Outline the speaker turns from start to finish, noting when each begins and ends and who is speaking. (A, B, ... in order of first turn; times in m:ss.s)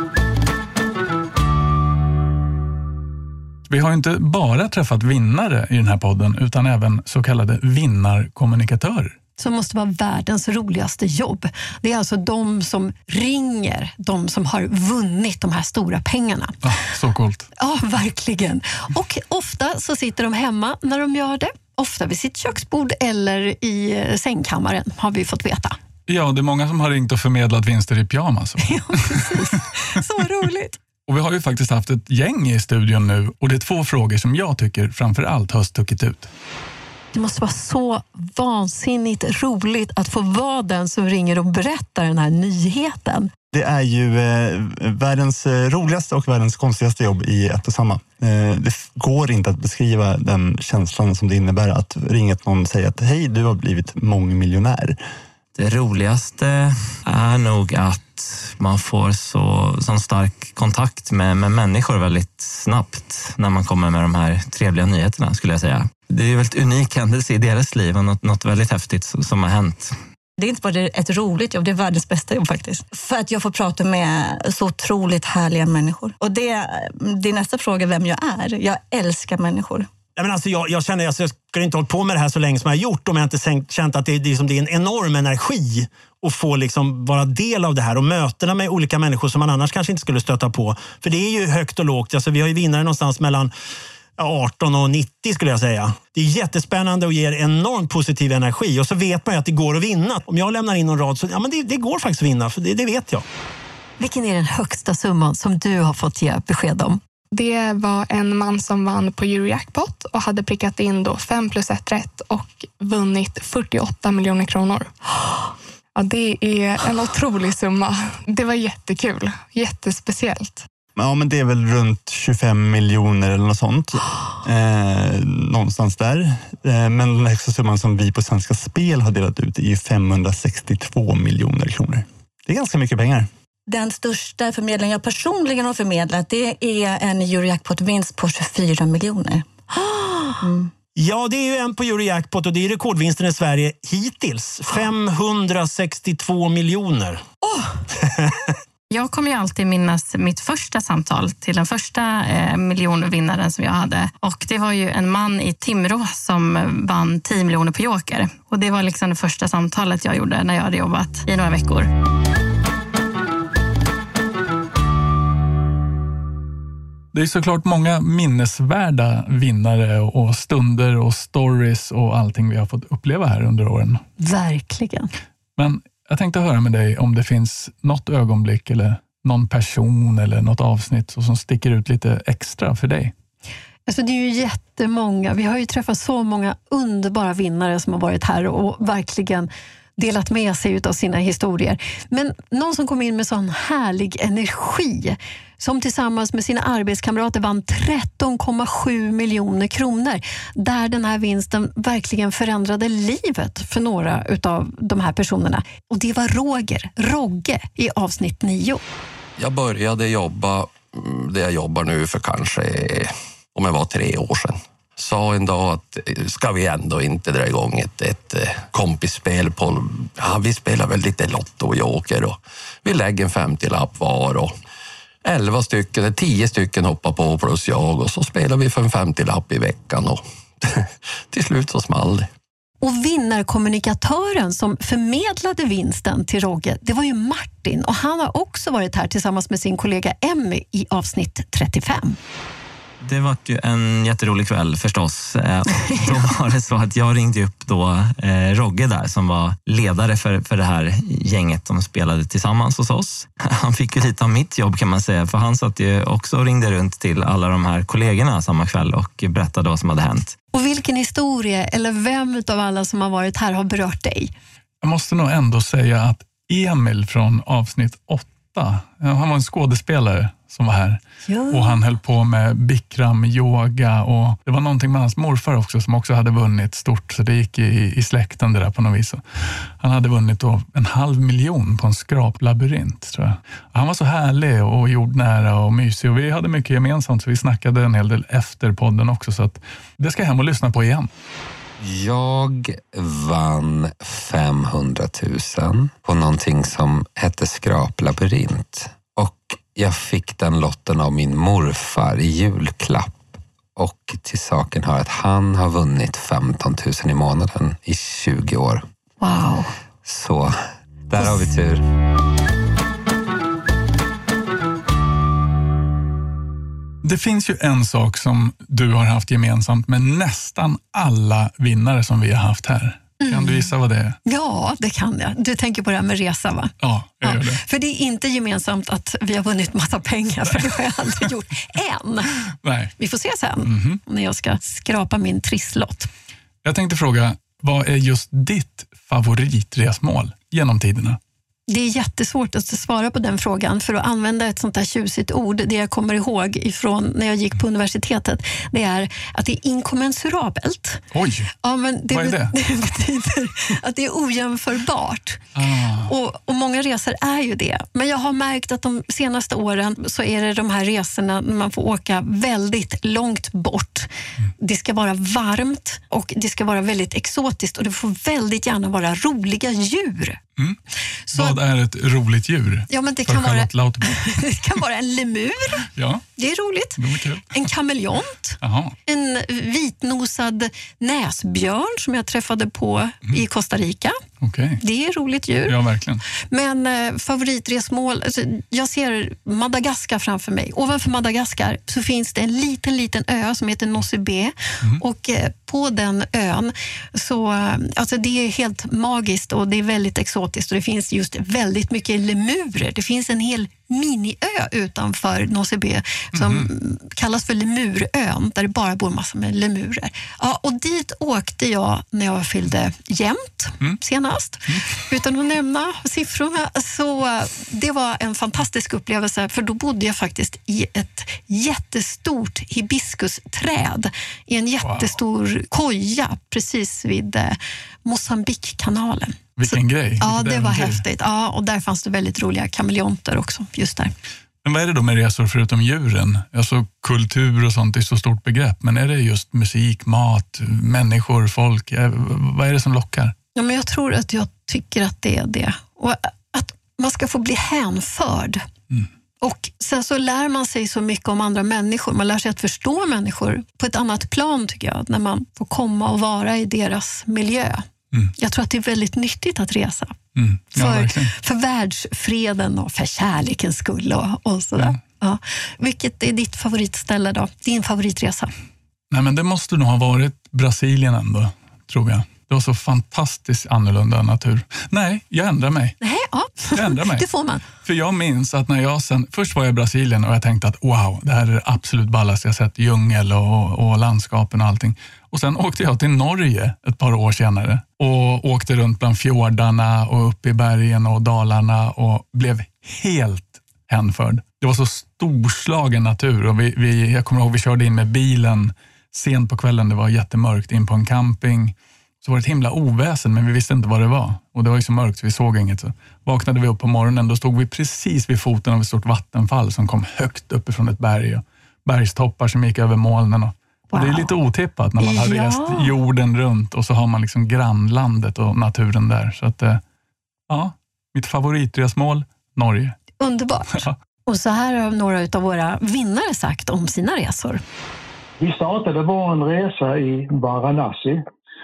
0:03.7-0:09.2 A
0:09.4-0:16.6 B
0:16.6-0:17.5 A
0:17.6-0:25.8 B
0:26.1-0:29.6 A
0:28.6-0:30.8 B
0:31.1-0:36.3 A
0:37.1-0:43.3 B
0:43.5-0:55.0 C
0:55.5-1:09.9 D
1:10.4-1:19.9 E
1:20.2-1:33.5 F
1:34.2-1:43.2 F
1:44.0-1:47.0 B
1:47.3-1:54.9 G
1:56.0-2:00.6 G
2:01.0-2:13.3 C
2:13.7-2:19.5 E
2:20.4-2:20.7 E
2:21.0-2:27.2 F
2:28.9-2:41.9 H
2:47.1-2:54.0 A
2:54.2-2:55.1 B
2:55.6-3:03.1 A
3:03.9-3:28.8 B
3:29.4-3:44.6 I
3:45.2-3:52.3 I
3:52.8-4:02.2 B
4:03.0-4:20.3 D
4:20.5-4:24.3 B
4:24.8-4:39.2 A
4:31.2-4:31.8 B
4:39.8-4:51.1 A
4:51.8-5:03.2 J
5:03.8-5:08.8 J
5:09.2-5:09.7 E
5:10.0-5:10.5 J
5:11.1-5:11.8 J
5:11.2-5:11.5 E
5:17.0-5:24.2 A
5:23.2-5:23.6 B
5:24.2-5:32.4 B
5:26.8-5:27.6 A
5:30.5-5:31.2 A
5:32.6-5:32.9 A
5:33.0-5:36.1 B
5:33.6-5:34.0 A
5:36.6-5:41.2 A
5:41.7-5:51.0 B
5:51.1-5:51.5 A
5:51.6-5:55.5 B
5:52.1-5:52.5 A
5:55.5-5:56.1 A
5:56.0-6:04.1 B
6:04.6-6:10.4 B
6:11.3-6:11.6 B
6:11.3-6:14.4 A
6:12.9-6:15.8 B
6:15.9-6:16.2 A
6:16.4-6:17.0 B
6:17.0-6:17.5 A
6:17.5-6:24.2 B
6:18.6-6:18.9 A
6:24.4-6:24.8 A
6:24.8-6:25.8 B
6:25.7-6:26.2 A
6:26.5-7:14.1 B
6:46.3-6:46.7 A
7:04.8-7:05.1 A
7:09.6-7:11.0 A
7:14.6-7:23.3 A
7:23.6-7:28.6 B
7:29.4-7:37.8 B
7:38.4-7:40.2 B
7:40.4-7:41.3 A
7:40.8-7:48.5 B
7:49.1-7:56.0 A
7:56.0-7:57.6 B
7:56.7-8:39.8 A
8:33.9-8:34.3 B
8:35.0-8:35.9 B
8:40.5-8:43.0 A
8:43.2-8:47.6 B
8:48.4-8:51.2 K